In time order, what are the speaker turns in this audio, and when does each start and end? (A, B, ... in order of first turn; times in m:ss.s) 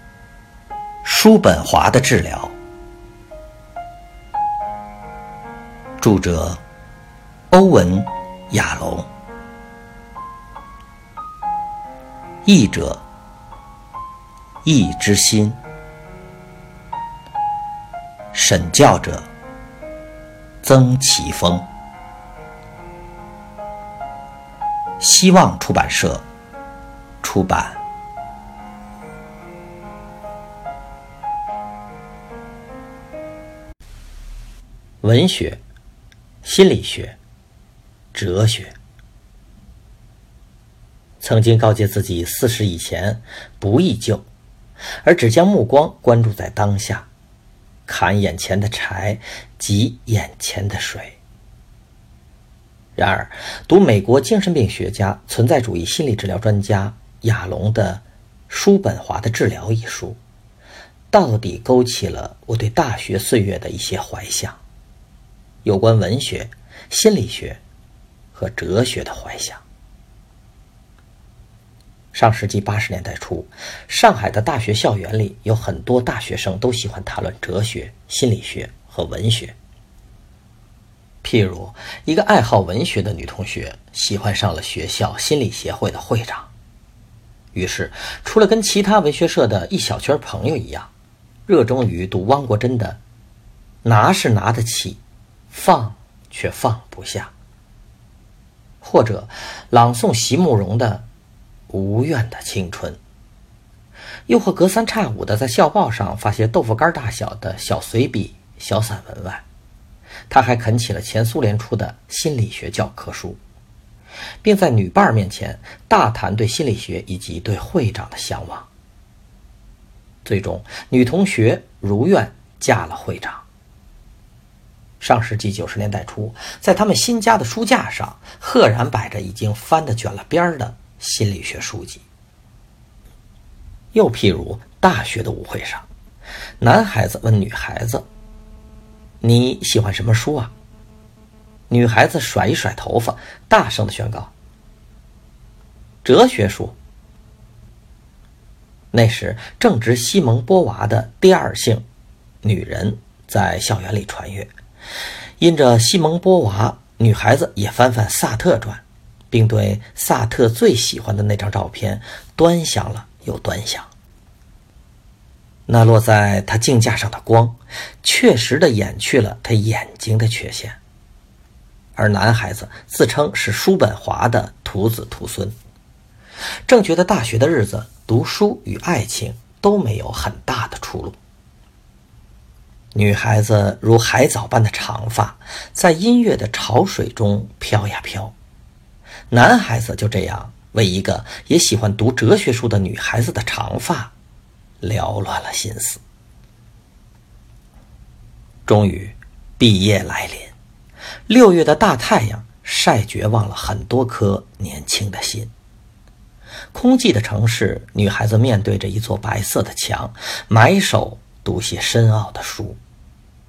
0:01.0-0:02.6 A
0:06.0-0:06.6 A
0:07.5-0:09.1 A
0:12.4-0:13.0 A
0:14.6-0:15.6 A
0:18.3-0:19.3 A
0:20.6-0:21.7 A
0:25.0-0:26.3 A
0:27.2-0:27.8 A
0:35.0-0:35.6 A
0:36.4-0:37.2 A
0:38.1-0:38.7 A
0:41.2-0:44.2 A
0:45.0-0:47.1 A
0:47.9-0:51.2 A
0:53.0-1:00.2 A
1:01.1-1:04.6 A
1:05.6-1:07.6 A
1:08.3-1:09.6 A
1:12.1-1:19.6 A
1:21.2-1:26.5 A
1:27.5-1:30.9 A
1:31.5-1:33.0 A
1:33.8-1:37.3 A
1:38.8-1:41.1 A
1:41.7-1:43.0 A
1:44.3-1:49.4 A
1:50.3-1:53.4 A
1:54.4-1:58.7 A
2:00.2-2:03.4 A
2:05.0-2:12.0 A
2:13.9-2:15.9 A
2:16.6-2:18.1 A
2:19.2-2:20.5 A
2:21.7-2:24.3 A
2:26.0-2:26.8 A
2:28.9-2:31.9 A
2:32.4-2:34.5 A
2:35.4-2:43.9 A
2:45.7-2:50.8 A
2:52.0-2:55.6 A
2:56.7-3:01.2 A
3:02.9-3:08.4 A
3:09.3-3:14.1 A
3:14.8-3:16.0 A
3:18.7-3:20.6 A
3:21.3-3:25.5 A
3:26.7-3:32.8 A